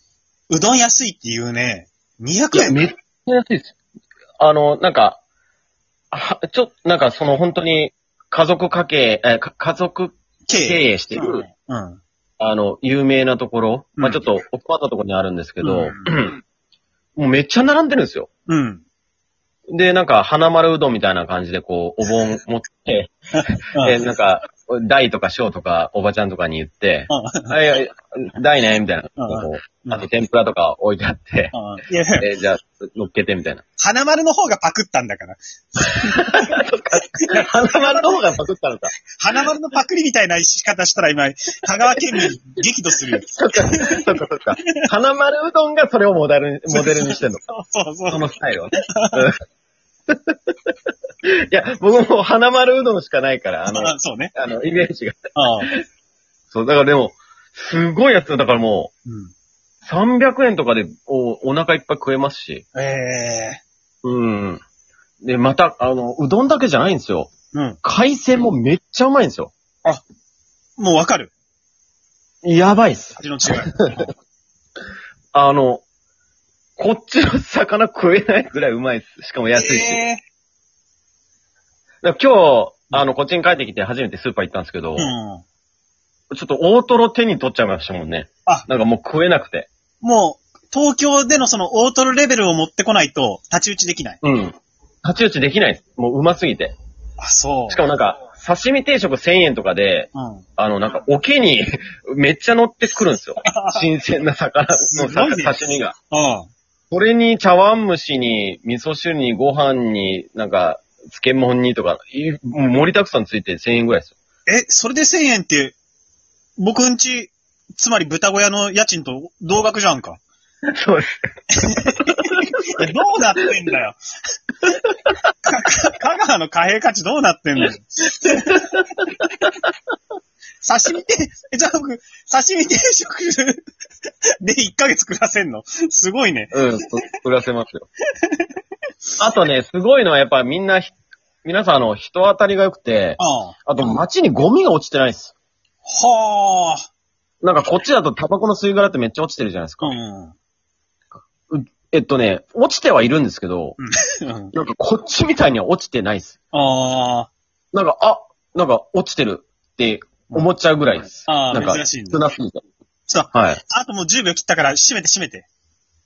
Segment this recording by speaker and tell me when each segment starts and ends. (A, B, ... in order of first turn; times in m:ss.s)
0:00.5-0:02.8 A
0:02.5-0:03.8 B
0:04.4-0:05.2 B
0:06.1-0:11.4 B
0:10.5-0:12.0 A
0:12.4-0:16.4 B
0:14.0-0:14.2 A
0:15.6-0:16.1 A
0:17.2-0:18.3 B
0:18.5-0:18.8 A
0:19.7-0:23.2 B
0:23.4-0:24.0 A
0:23.7-0:31.6 B
0:27.1-0:27.5 A
0:29.2-0:30.1 A
0:31.5-0:32.3 A
0:32.2-0:33.6 B
0:33.8-0:36.5 A
0:36.1-0:39.0 B
0:37.2-0:38.2 A
0:39.2-0:44.0 A
0:43.2-0:47.4 B
0:46.7-0:48.3 A
0:48.1-0:49.4 B
0:48.9-0:49.3 A
0:50.1-0:50.4 B
0:51.3-0:55.8 B
0:53.7-0:54.3 A
0:55.4-0:55.7 A
0:56.5-0:58.9 B
0:59.1-0:59.3 A
0:59.8-1:02.6 B
1:02.7-1:03.6 A
1:04.0-1:04.6 B
1:05.2-1:07.3 B
1:07.5-1:07.8 A
1:07.8-1:09.5 B
1:10.8-1:11.3 A
1:12.4-1:14.1 B
1:13.2-1:14.1 A
1:15.3-1:15.8 B
1:16.8-1:20.0 B
1:19.6-1:20.2 A
1:22.0-1:25.1 B
1:25.0-1:25.4 A
1:26.3-1:29.7 B
1:30.0-1:34.2 A
1:34.2-1:36.8 B
1:37.2-1:37.9 A
1:37.7-1:46.0 B
1:40.2-1:40.4 A
1:43.4-1:43.9 A
1:44.9-1:45.6 A
1:46.1-1:46.5 A
1:46.9-1:54.2 B
1:54.5-1:55.8 A
1:56.6-2:00.2 A
2:00.7-2:01.3 B
2:01.5-2:04.0 A
2:05.4-2:08.8 A
2:10.6-2:13.6 A
2:14.4-2:16.6 A
2:16.5-2:17.9 B
2:19.2-2:25.3 B
2:23.2-2:23.6 A
2:25.8-2:26.9 A
2:27.4-2:30.0 B
2:29.8-2:30.4 A
2:31.5-2:33.8 B
2:33.8-2:34.5 A
2:34.5-2:36.4 B
2:36.5-2:37.3 A
2:37.7-2:42.6 B
2:41.2-2:42.2 A
2:43.1-2:45.5 A
2:43.3-2:43.6 B